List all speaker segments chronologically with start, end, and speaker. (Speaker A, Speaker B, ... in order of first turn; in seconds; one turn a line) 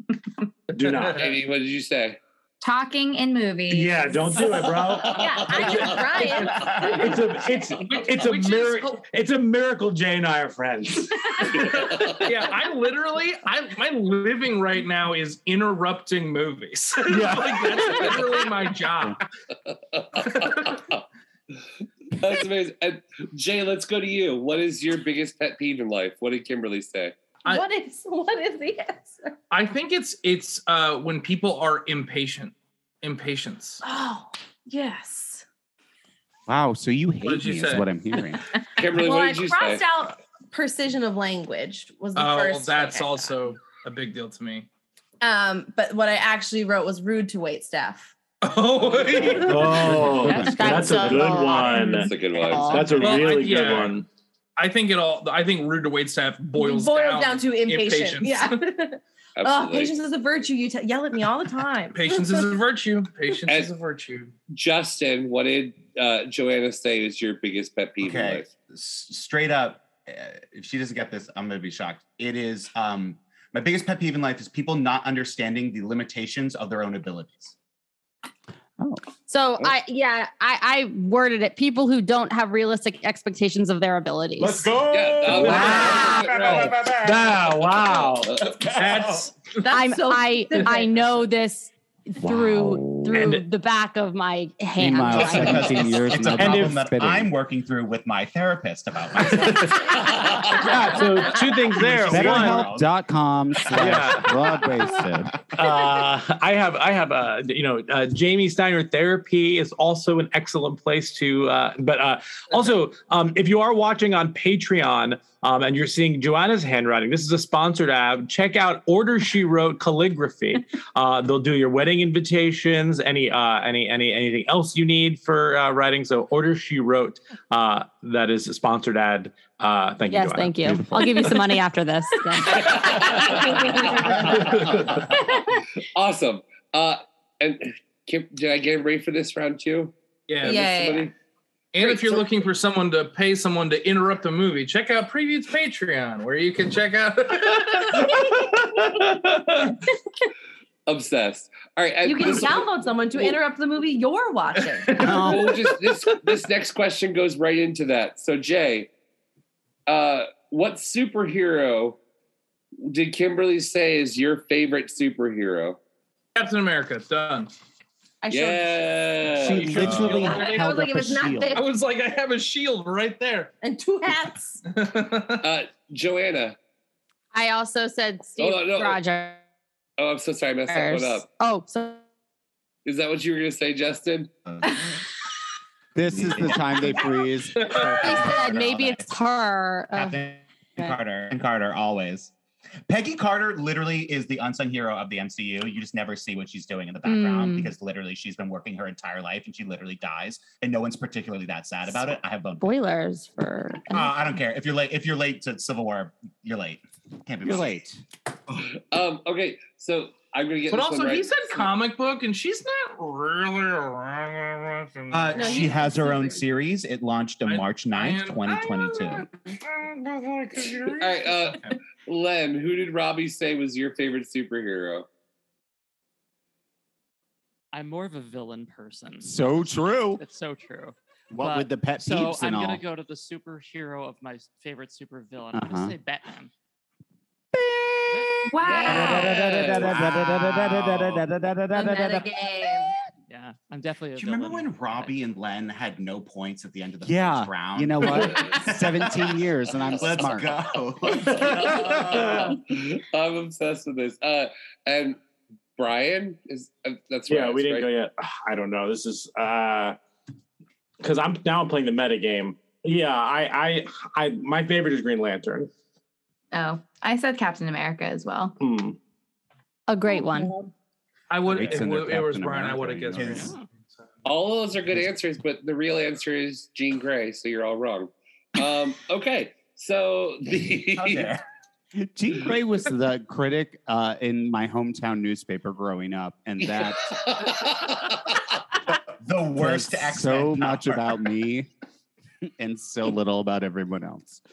Speaker A: 0.7-1.3
Speaker B: 0.8-1.1
Speaker C: 1.1-2.2
Speaker D: 2.6-4.4
Speaker A: 3.7-6.0
Speaker E: 5.0-7.2
Speaker C: 5.6-5.9
Speaker A: 6.8-11.5
Speaker B: 7.8-9.1
Speaker B: 11.5-19.2
Speaker C: 11.6-12.2
Speaker A: 17.1-18.2
Speaker C: 19.7-21.0
Speaker B: 20.2-20.8
Speaker C: 22.1-27.2
Speaker E: 27.4-29.3
Speaker B: 29.5-33.8
Speaker E: 33.8-35.4
Speaker F: 36.5-38.4
Speaker B: 37.2-37.9
Speaker C: 38.8-39.9
Speaker E: 38.8-43.3
Speaker B: 42.1-44.7
Speaker E: 45.2-48.1
Speaker B: 48.4-49.7
Speaker F: 48.9-51.8
Speaker A: 49.4-52.1
Speaker G: 50.1-51.0
Speaker H: 50.4-52.9
Speaker C: 52.0-53.0
Speaker A: 52.6-54.0
Speaker F: 52.7-53.8
Speaker B: 52.9-54.0
Speaker B: 54.6-58.6
Speaker E: 56.5-62.5
Speaker C: 59.4-59.9
Speaker B: 61.9-64.3
Speaker C: 63.5-63.7
Speaker C: 64.5-68.5
Speaker I: 68.0-77.5
Speaker H: 79.3-84.7
Speaker A: 84.4-88.3
Speaker C: 84.9-86.9
Speaker F: 85.5-85.9
Speaker C: 87.8-88.6
Speaker B: 88.7-89.6
Speaker I: 88.8-89.2
Speaker E: 89.6-91.2
Speaker H: 89.7-95.9
Speaker F: 92.2-93.4
Speaker A: 93.1-93.5
Speaker F: 94.8-97.3
Speaker I: 95.1-100.2
Speaker A: 96.4-96.8
Speaker A: 100.5-102.7
Speaker I: 101.7-102.9
Speaker F: 102.0-105.4
Speaker A: 103.7-104.3
Speaker A: 105.5-131.3
Speaker H: 130.1-132.9
Speaker F: 130.6-131.1
Speaker E: 132.3-134.1
Speaker C: 132.5-134.8
Speaker C: 135.9-141.1
Speaker B: 140.3-140.7
Speaker E: 140.4-141.1
Speaker B: 141.7-149.7
Speaker C: 141.8-142.2
Speaker C: 150.9-153.3
Speaker E: 152.0-155.1
Speaker B: 154.5-156.1
Speaker F: 154.9-155.6
Speaker C: 155.1-158.9
Speaker C: 159.9-162.0
Speaker C: 162.8-165.8
Speaker B: 166.3-167.5
Speaker E: 168.2-168.7
Speaker C: 168.3-170.3
Speaker F: 169.4-171.6
Speaker B: 169.4-170.8
Speaker I: 169.8-170.2
Speaker E: 170.0-171.7
Speaker B: 171.5-173.5
Speaker E: 173.6-174.6
Speaker B: 174.6-175.4
Speaker C: 175.4-176.6
Speaker H: 177.3-179.4
Speaker C: 178.4-179.0
Speaker C: 180.0-181.2
Speaker H: 180.7-182.0
Speaker C: 182.8-184.3
Speaker I: 184.4-184.9
Speaker F: 185.9-188.4
Speaker I: 186.1-189.2
Speaker B: 187.6-187.9
Speaker H: 188.0-190.2
Speaker I: 189.9-192.3
Speaker I: 192.9-202.7
Speaker H: 197.0-197.7
Speaker H: 202.6-204.1
Speaker I: 203.9-207.8
Speaker F: 207.4-208.0
Speaker C: 208.6-211.7
Speaker B: 210.7-215.8
Speaker I: 215.1-219.3
Speaker E: 215.3-216.4
Speaker B: 217.4-221.8
Speaker C: 220.9-225.1
Speaker G: 227.7-229.6
Speaker F: 229.2-230.2
Speaker G: 230.2-236.5
Speaker F: 231.3-232.8
Speaker F: 235.5-235.9
Speaker F: 237.5-242.9
Speaker G: 238.1-238.5
Speaker D: 238.6-239.1
Speaker C: 238.6-241.0
Speaker H: 241.9-242.2
Speaker G: 243.3-245.2
Speaker I: 244.1-249.4
Speaker F: 247.0-250.6
Speaker I: 249.9-252.5
Speaker C: 251.2-255.2
Speaker C: 255.8-257.9
Speaker A: 257.3-260.0
Speaker A: 261.0-265.7
Speaker D: 266.5-268.5
Speaker A: 268.6-268.9
Speaker H: 269.9-270.5
Speaker B: 271.3-273.5
Speaker F: 271.4-273.5
Speaker I: 273.1-273.5
Speaker G: 273.4-273.7
Speaker C: 274.2-281.3
Speaker I: 280.9-281.4
Speaker F: 281.9-287.2
Speaker C: 286.6-288.3
Speaker I: 289.2-291.1
Speaker F: 289.6-291.7
Speaker F: 292.4-294.4